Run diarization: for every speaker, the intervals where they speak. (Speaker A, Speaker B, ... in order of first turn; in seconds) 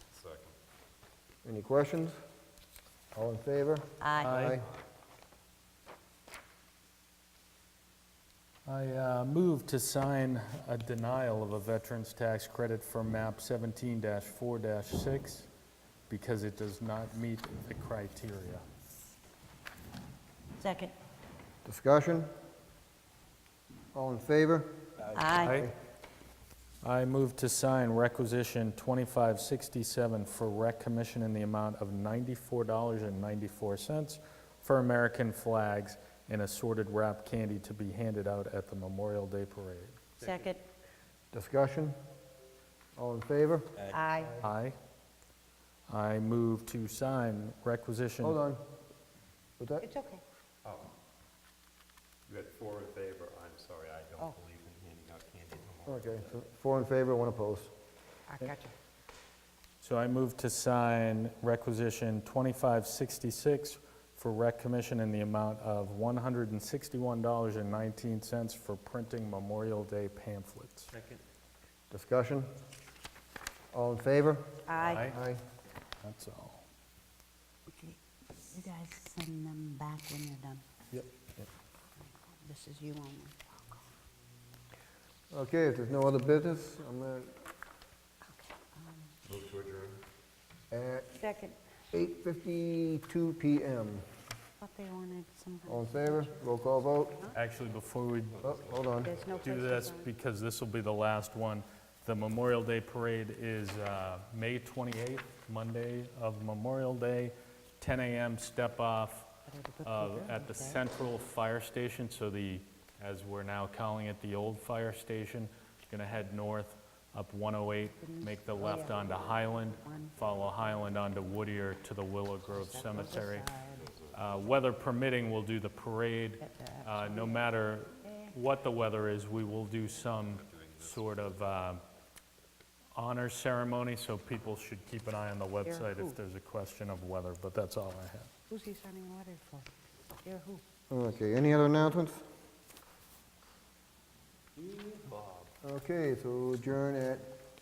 Speaker A: 0.1-0.6, 4.5-4.8, 40.2-40.5, 50.6-50.9, 52.3-56.2, 89.3-90.0, 98.4-99.8, 118.8-120.9, 123.8-124.6, 130.2-131.5, 144.9-145.4
Speaker B: 1.4-2.2, 3.1-4.7, 21.6-22.3, 23.9-24.8, 41.3-42.0, 43.0-43.8, 48.2-48.6, 49.6-49.9, 55.9-57.7, 71.9-72.5, 73.7-75.4, 85.3-87.4, 90.7-91.1, 91.9-94.0, 95.7-97.2, 98.4-99.2, 140.9-142.2, 145.6-147.3
Speaker C: 4.0-4.4, 20.6-20.9, 25.1-25.7, 40.2-40.6, 43.8-44.4, 49.8-50.2, 58.3-58.8, 74.7-75.1, 77.7-80.7, 82.0-83.8, 88.3-89.1, 91.1-91.6, 94.6-97.4, 99.0-100.1, 109.5-110.8, 117.8-120.2, 122.5-123.9, 126.4-127.5, 128.1-128.3, 135.6-136.2, 138.5-139.7, 140.2-140.6
Speaker D: 4.2-4.6, 8.7-15.5, 16.1-18.6, 25.4-25.7, 26.8-40.0, 44.4-44.8, 45.9-48.4, 59.8-70.9, 74.8-75.2, 76.0-76.6, 97.3-98.5, 99.4-109.3, 109.8-123.5, 124.1-131.8, 132.9-138.3